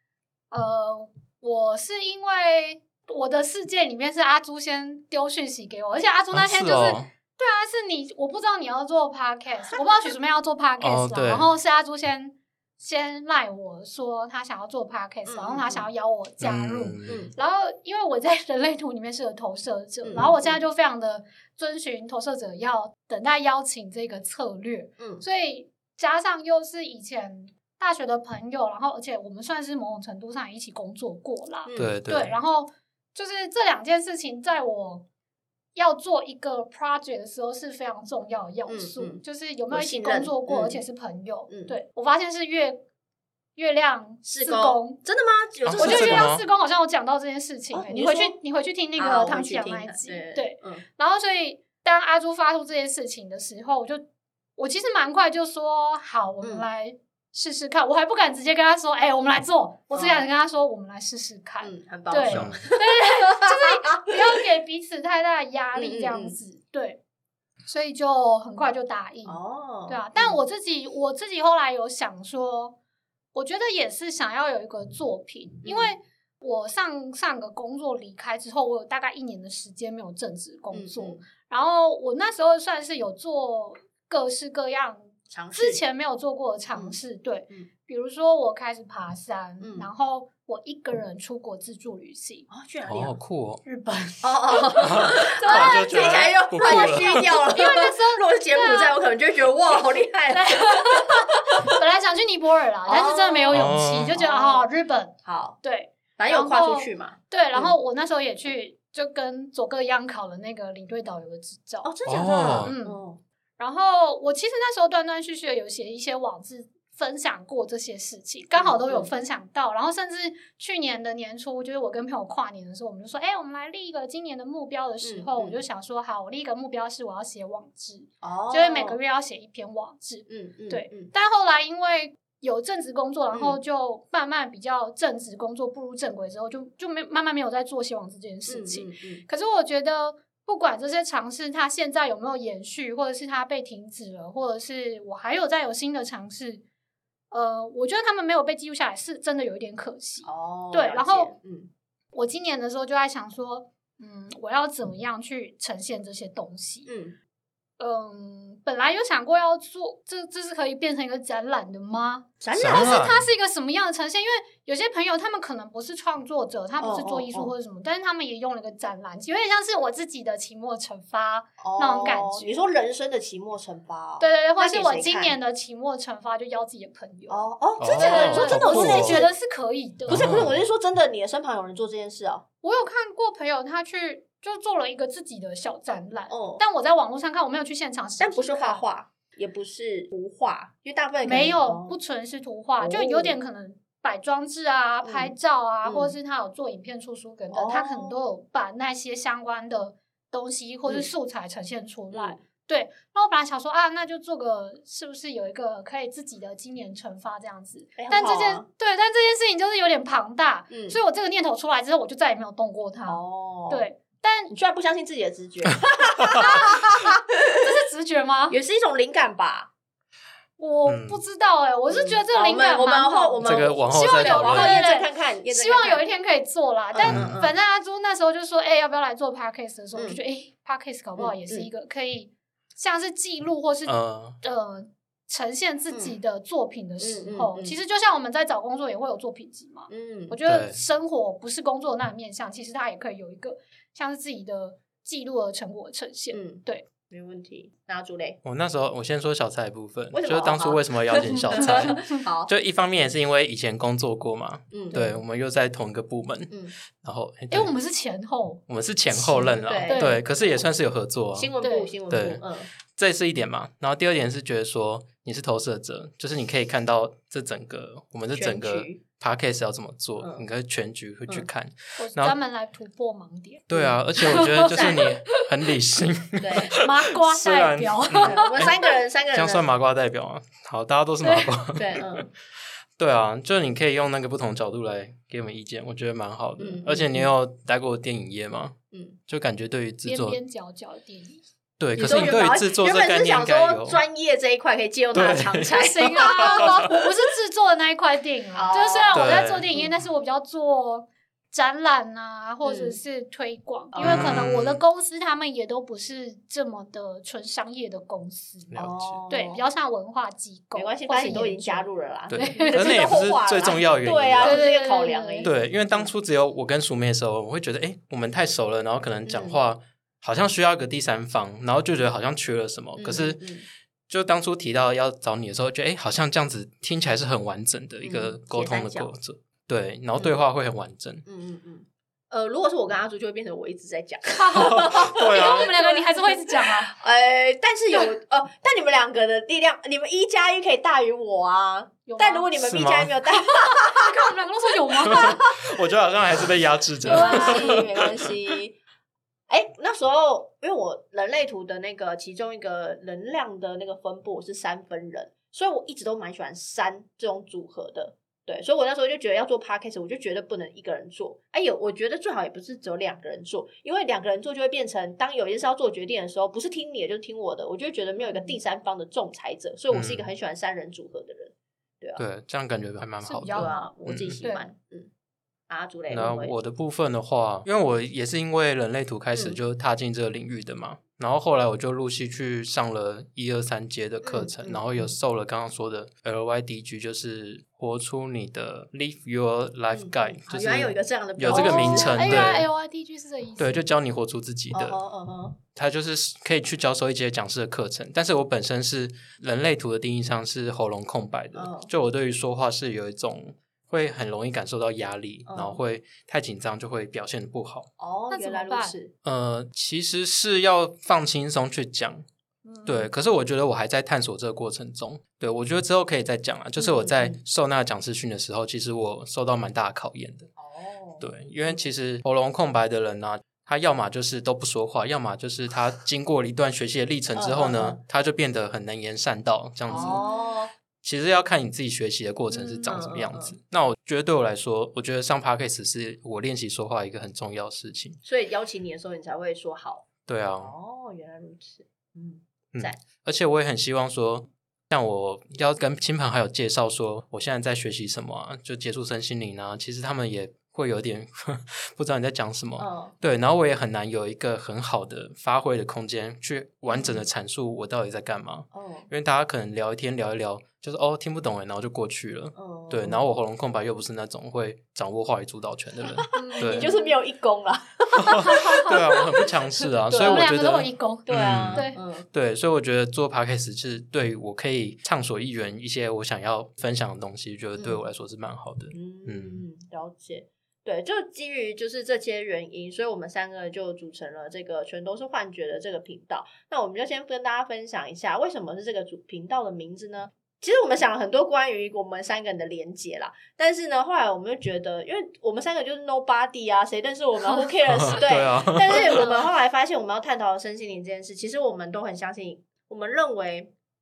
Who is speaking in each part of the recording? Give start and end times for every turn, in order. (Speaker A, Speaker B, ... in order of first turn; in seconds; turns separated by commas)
Speaker A: 0.5-35.1, Speaker B: 6.3-7.1, Speaker B: 10.8-11.5, Speaker C: 15.3-15.9, Speaker B: 16.4-17.3, Speaker C: 17.1-17.3, Speaker C: 20.1-20.6, Speaker C: 25.0-25.2, Speaker C: 31.7-32.0, Speaker B: 31.8-32.4, Speaker A: 35.8-42.8, Speaker C: 38.7-40.8, Speaker C: 41.5-41.8, Speaker A: 43.6-45.0, Speaker C: 44.2-46.3, Speaker B: 45.6-46.4, Speaker A: 45.7-54.0, Speaker C: 47.7-48.4, Speaker C: 49.0-50.8, Speaker A: 54.6-67.0, Speaker C: 56.4-56.7, Speaker C: 59.9-60.3, Speaker C: 61.6-64.2, Speaker B: 62.3-62.7, Speaker C: 65.7-66.4, Speaker A: 67.7-72.8, Speaker C: 69.2-70.4, Speaker A: 73.3-92.5, Speaker C: 75.6-76.0, Speaker C: 80.7-81.2, Speaker C: 85.3-85.8, Speaker C: 86.7-87.7, Speaker C: 89.6-89.9, Speaker C: 92.5-93.2, Speaker B: 92.9-93.6, Speaker A: 93.6-99.0, Speaker C: 94.2-101.5, Speaker B: 94.8-97.4, Speaker A: 100.3-113.0, Speaker C: 102.8-104.7, Speaker B: 103.5-104.2, Speaker C: 105.2-105.6, Speaker C: 106.2-107.7, Speaker C: 111.8-113.2, Speaker B: 112.0-112.7, Speaker A: 113.6-146.6, Speaker C: 118.5-119.1, Speaker C: 125.0-125.6, Speaker C: 128.2-129.0, Speaker C: 130.3-131.1, Speaker C: 133.3-133.6, Speaker C: 138.5-139.2, Speaker A: 147.3-151.3, Speaker C: 150.2-151.7, Speaker A: 152.1-156.9, Speaker C: 156.8-157.2, Speaker A: 157.8-172.5, Speaker C: 162.4-163.2, Speaker B: 162.6-163.3, Speaker C: 166.8-167.5, Speaker C: 171.6-175.4, Speaker A: 174.2-180.3, Speaker C: 177.3-179.3, Speaker B: 177.8-179.2, Speaker B: 180.1-180.5, Speaker C: 180.1-182.4, Speaker A: 182.6-188.8, Speaker C: 186.3-186.6, Speaker C: 188.2-192.0, Speaker A: 191.2-214.5, Speaker C: 192.8-193.4, Speaker C: 195.0-196.2, Speaker C: 197.5-198.2, Speaker C: 202.1-202.4, Speaker C: 208.0-208.7, Speaker C: 210.7-211.0, Speaker C: 213.1-213.8, Speaker C: 214.5-217.2, Speaker A: 216.2-218.6, Speaker C: 218.5-219.7, Speaker A: 220.6-246.9, Speaker B: 220.8-221.2, Speaker C: 221.9-226.0, Speaker B: 223.4-224.8, Speaker C: 226.9-227.5, Speaker B: 227.1-227.4, Speaker C: 229.9-230.2, Speaker C: 231.2-231.7, Speaker B: 233.8-234.4, Speaker C: 235.9-236.2, Speaker C: 237.0-237.8, Speaker C: 239.9-240.4, Speaker B: 240.4-240.8, Speaker C: 246.3-248.4, Speaker B: 248.4-257.7, Speaker C: 250.1-252.5, Speaker C: 254.7-255.0, Speaker A: 254.9-255.2, Speaker C: 256.5-256.8, Speaker A: 257.5-258.6, Speaker B: 258.7-261.5, Speaker C: 259.1-260.7, Speaker A: 259.9-260.2, Speaker C: 261.3-262.7, Speaker A: 261.6-261.9, Speaker B: 262.1-272.4, Speaker C: 268.3-269.0, Speaker C: 270.2-270.4, Speaker A: 272.0-273.6, Speaker B: 273.7-278.8, Speaker C: 273.7-275.1, Speaker A: 274.2-275.4, Speaker C: 276.4-276.8, Speaker A: 276.6-278.8, Speaker C: 278.2-279.7, Speaker B: 279.3-282.1, Speaker A: 281.2-281.6, Speaker C: 281.8-282.3, Speaker B: 283.0-288.8, Speaker C: 286.6-287.3, Speaker C: 288.9-289.2, Speaker B: 289.3-290.4, Speaker A: 290.0-291.4, Speaker B: 291.8-294.0, Speaker C: 292.0-296.8, Speaker B: 295.1-296.9, Speaker A: 295.7-308.7, Speaker C: 298.5-299.9, Speaker B: 299.1-299.7, Speaker C: 302.6-303.0, Speaker C: 303.9-304.5, Speaker B: 304.0-304.8, Speaker B: 308.7-309.2, Speaker C: 308.8-309.6, Speaker A: 309.3-313.1, Speaker C: 310.8-316.1, Speaker B: 312.3-314.6, Speaker A: 314.4-315.5, Speaker B: 315.4-323.4, Speaker C: 319.2-319.6, Speaker C: 323.0-323.7, Speaker B: 324.1-331.2, Speaker C: 328.0-329.1, Speaker C: 330.2-330.4, Speaker C: 331.2-344.2, Speaker A: 334.3-336.9, Speaker B: 334.5-335.7, Speaker A: 342.1-342.5, Speaker B: 342.6-343.1, Speaker A: 343.5-345.4, Speaker C: 345.0-345.8, Speaker B: 345.1-348.0, Speaker C: 347.0-348.8, Speaker A: 347.1-347.8, Speaker C: 349.5-372.2, Speaker A: 368.2-368.6, Speaker B: 369.9-370.3, Speaker B: 372.2-374.4, Speaker A: 373.2-373.8, Speaker C: 373.5-375.1, Speaker C: 375.7-376.6, Speaker B: 376.1-392.7, Speaker C: 379.3-379.6, Speaker C: 384.2-385.1, Speaker C: 389.9-392.6, Speaker A: 391.5-393.9, Speaker B: 393.6-395.0, Speaker C: 394.7-395.6, Speaker B: 395.8-407.9, Speaker C: 401.5-401.9, Speaker C: 405.5-405.8, Speaker C: 408.0-409.1, Speaker A: 408.3-409.0, Speaker B: 409.2-412.2, Speaker A: 412.6-413.1, Speaker B: 412.9-420.5, Speaker C: 416.8-417.4, Speaker C: 420.6-421.8, Speaker B: 421.2-430.2, Speaker C: 427.4-428.0, Speaker C: 429.9-430.7, Speaker A: 429.9-430.6, Speaker B: 431.0-438.2, Speaker C: 432.7-433.6, Speaker C: 438.2-440.1, Speaker B: 440.2-440.8, Speaker C: 440.6-443.0, Speaker B: 442.7-466.9, Speaker C: 452.8-453.1, Speaker C: 456.9-457.3, Speaker C: 458.7-459.1, Speaker C: 462.6-463.2, Speaker C: 466.1-469.5, Speaker A: 466.3-467.2, Speaker B: 468.3-479.6, Speaker A: 468.4-469.3, Speaker C: 470.1-470.6, Speaker A: 470.1-472.0, Speaker C: 471.2-472.3, Speaker C: 477.8-478.1, Speaker C: 478.9-503.7, Speaker B: 497.9-499.2, Speaker A: 498.9-499.4